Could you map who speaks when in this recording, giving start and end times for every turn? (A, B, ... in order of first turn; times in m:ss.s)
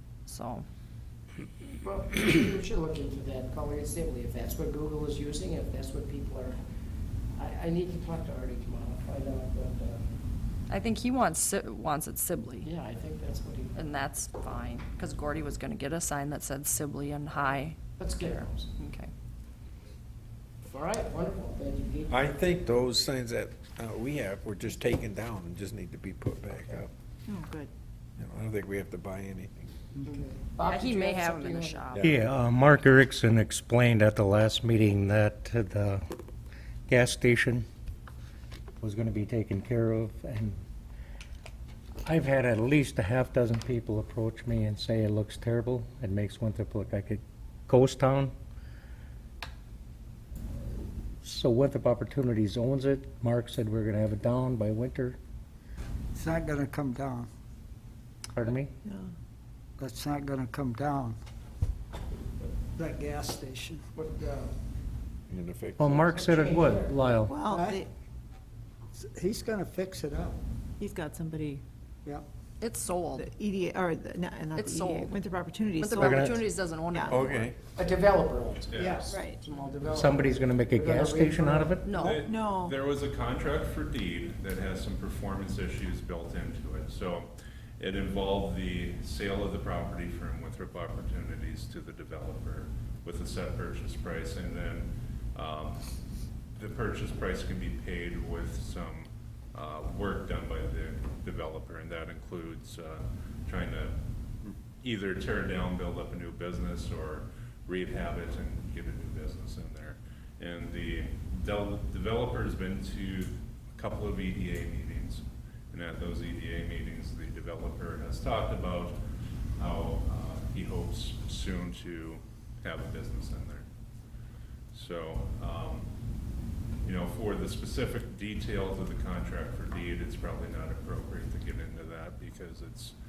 0:00.3-0:00.6 A
0:01.8-0:06.6 B
0:07.3-0:10.1 B
0:10.7-0:12.7 A
0:12.6-0:13.8 B
0:13.7-0:19.1 A
0:18.0-0:18.7 B
0:20.6-0:22.2 B
0:22.1-0:26.9 C
0:27.3-0:27.7 D
0:28.2-0:29.7 C
0:30.0-0:31.9 B
0:30.6-0:32.1 A
0:31.9-0:32.2 C
0:32.0-0:36.0 E
0:36.9-0:37.6 E
0:38.8-0:40.6 E
0:42.0-0:48.3 E
0:51.2-0:55.2 E
0:56.1-0:57.3 F
0:58.3-0:58.7 E
0:58.8-0:59.1 D
0:59.8-1:01.2 F
1:02.8-1:03.8 F
1:04.0-1:04.6 B
1:05.3-1:06.0 C
1:05.8-1:07.4 E
1:06.0-1:06.9 B
1:07.3-1:07.9 D
1:07.5-1:07.8 F
1:08.9-1:10.4 F
1:10.8-1:11.6 D
1:12.6-1:13.3 A
1:13.2-1:17.3 D
1:14.6-1:15.2 A
1:15.8-1:17.5 A
1:16.0-1:16.3 E
1:17.1-1:17.6 C
1:17.7-1:21.7 B
1:18.7-1:19.0 G
1:19.0-1:19.4 D
1:19.9-1:21.9 E
1:21.8-1:22.2 A
1:21.9-1:35.8 G
1:22.2-1:22.7 D
1:36.5-1:44.0 G
1:44.8-1:59.0 G
1:59.6-2:03.7 G
2:04.7-2:05.9 G
2:06.8-2:13.0 G